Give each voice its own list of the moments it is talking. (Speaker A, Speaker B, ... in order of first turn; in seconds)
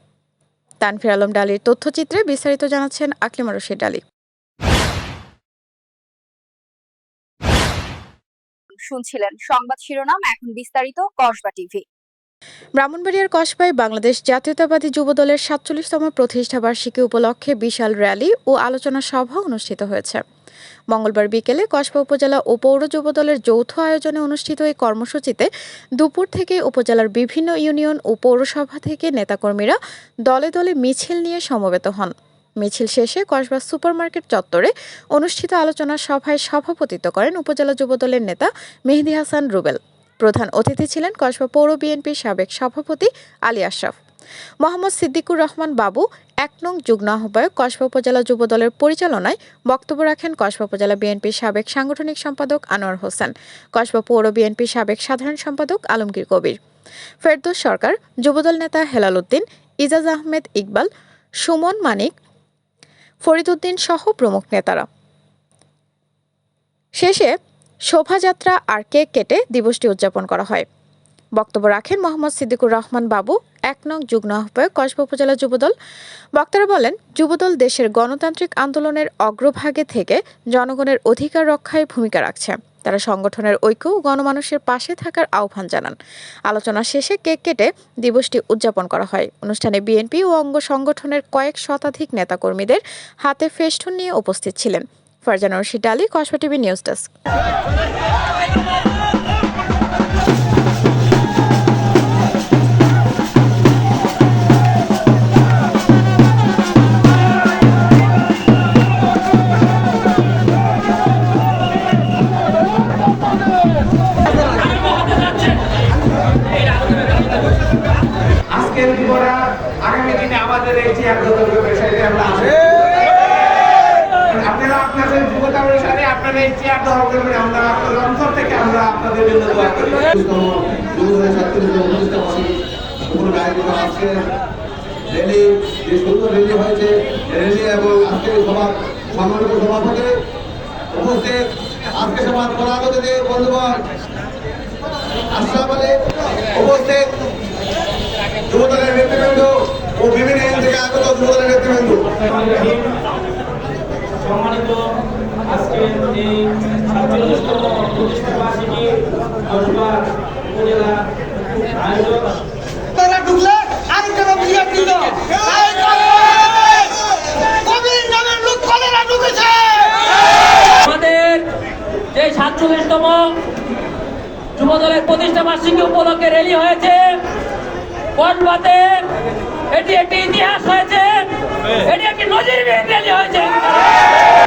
Speaker A: 0.8-4.0, 12.8-20.2, 20.9-25.5, 26.0-44.0, 44.6-56.6, 57.2-60.9, 61.4-62.1, 63.2-64.8, 67.0-67.3, 67.9-70.7, 71.4-75.7, 76.4-86.0, 86.5-97.1
Speaker B: 8.7-11.8
Speaker C: 114.3-115.5, 152.4-152.9, 154.2-154.8, 155.5-160.0, 160.5-161.0, 161.6-162.3, 170.7-171.5, 172.1-173.4, 174.6-177.3, 178.2-184.1
Speaker D: 118.5-122.6, 124.4-130.0
Speaker E: 130.1-132.5, 133.1-134.3, 135.1-140.2, 140.9-143.7, 145.3-145.9, 146.5-147.1, 148.5-152.2
Speaker F: 162.9-167.1, 167.6-169.9